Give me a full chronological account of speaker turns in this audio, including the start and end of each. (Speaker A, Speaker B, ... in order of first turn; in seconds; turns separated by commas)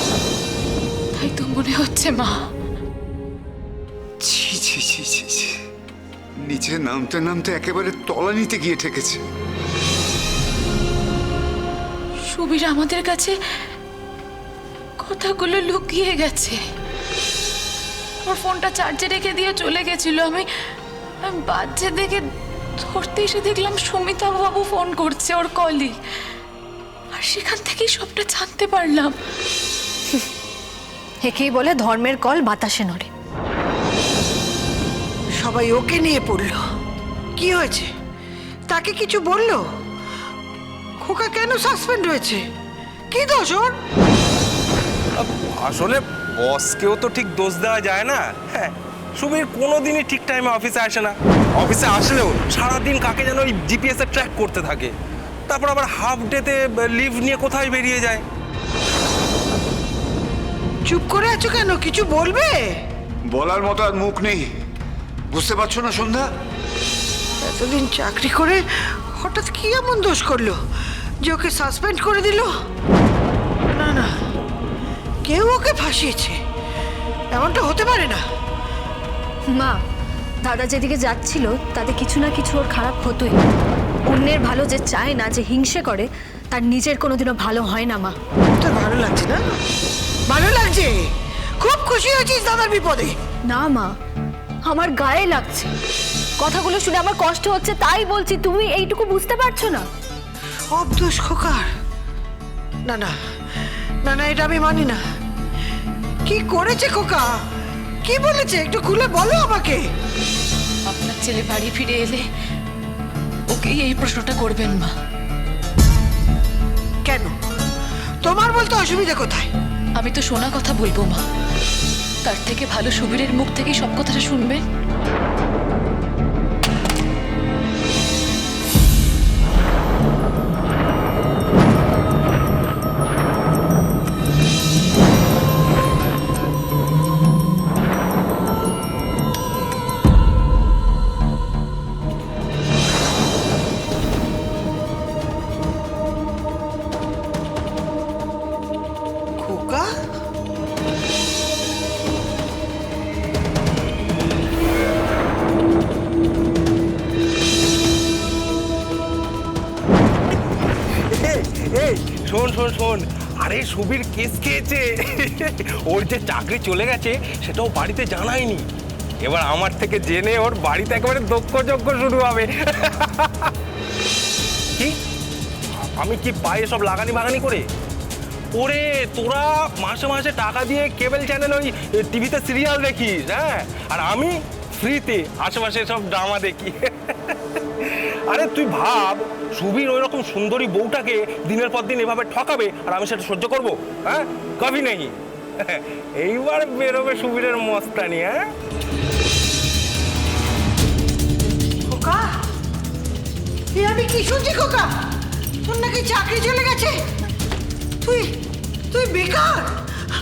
Speaker A: 1.1-2.4, Speaker B: 4.2-5.5, Speaker B: 6.4-9.2, Speaker A: 12.3-13.3, Speaker A: 15.0-16.6, Speaker A: 18.2-20.4, Speaker A: 21.2-22.2, Speaker A: 22.8-25.9, Speaker A: 27.1-29.1, Speaker C: 31.2-33.1, Speaker D: 35.4-36.6, Speaker D: 37.4-37.9, Speaker D: 38.7-39.6, Speaker D: 41.0-42.4, Speaker D: 43.1-43.7, Speaker E: 45.1-54.9, Speaker E: 55.5-58.2, Speaker D: 60.9-62.6, Speaker B: 63.3-64.5, Speaker B: 65.3-66.3, Speaker D: 67.4-70.6, Speaker D: 71.2-72.5, Speaker D: 73.7-74.1, Speaker D: 75.2-76.4, Speaker D: 77.3-78.2, Speaker C: 79.5-79.8, Speaker C: 80.4-83.4, Speaker C: 84.1-88.1, Speaker D: 88.6-89.4, Speaker D: 90.3-90.9, Speaker D: 91.6-93.1, Speaker C: 93.5-93.9, Speaker C: 94.6-95.7, Speaker C: 96.4-99.8, Speaker D: 100.7-101.7, Speaker D: 102.8-103.1, Speaker D: 104.0-105.0, Speaker D: 106.2-107.2, Speaker D: 108.0-109.8, Speaker A: 110.9-112.2, Speaker A: 113.5-114.9, Speaker D: 117.0-117.3, Speaker D: 118.2-119.5, Speaker A: 120.0-121.2, Speaker A: 122.2-124.6, Speaker D: 149.4-149.9, Speaker E: 161.1-168.7, Speaker E: 169.2-173.5, Speaker E: 175.9-177.7, Speaker E: 178.5-198.4, Speaker D: 201.9-202.2, Speaker D: 203.7-204.9, Speaker D: 205.6-206.9, Speaker D: 208.0-208.3, Speaker D: 208.9-209.7